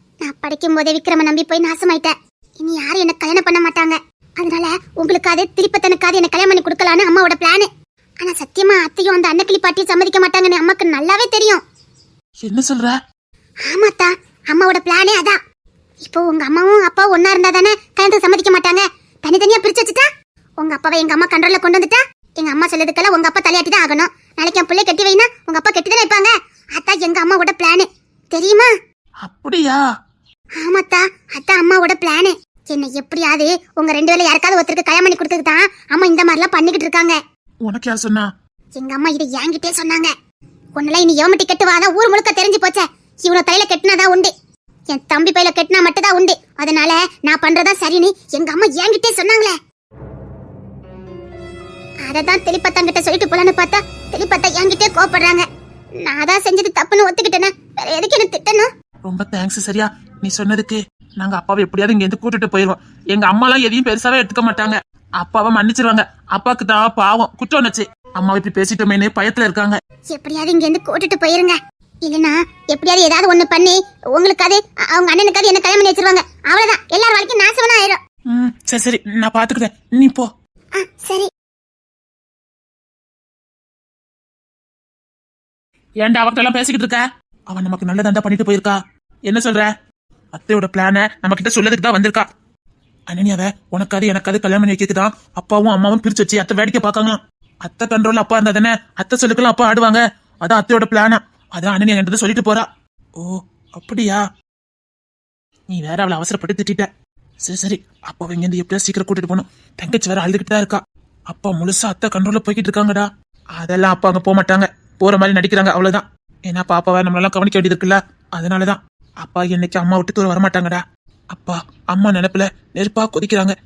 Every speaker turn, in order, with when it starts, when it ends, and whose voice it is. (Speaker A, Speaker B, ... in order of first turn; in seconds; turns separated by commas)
Speaker A: 0.2-7.7, Speaker A: 8.2-11.6, Speaker B: 12.4-13.0, Speaker A: 13.7-15.4, Speaker A: 16.0-20.1, Speaker A: 20.6-28.7, Speaker B: 29.2-29.8, Speaker A: 30.6-37.1, Speaker B: 37.6-38.3, Speaker A: 38.7-40.1, Speaker A: 40.8-44.3, Speaker A: 44.9-49.5, Speaker A: 52.0-55.5, Speaker A: 56.0-58.7, Speaker B: 59.0-69.8, Speaker A: 70.1-78.0, Speaker B: 78.3-80.3, Speaker A: 80.8-81.3, Speaker B: 86.0-89.7, Speaker B: 90.3-92.3, Speaker B: 93.1-102.7, Speaker B: 103.2-104.2, Speaker B: 105.7-106.9, Speaker B: 107.4-113.1, Speaker B: 113.6-123.5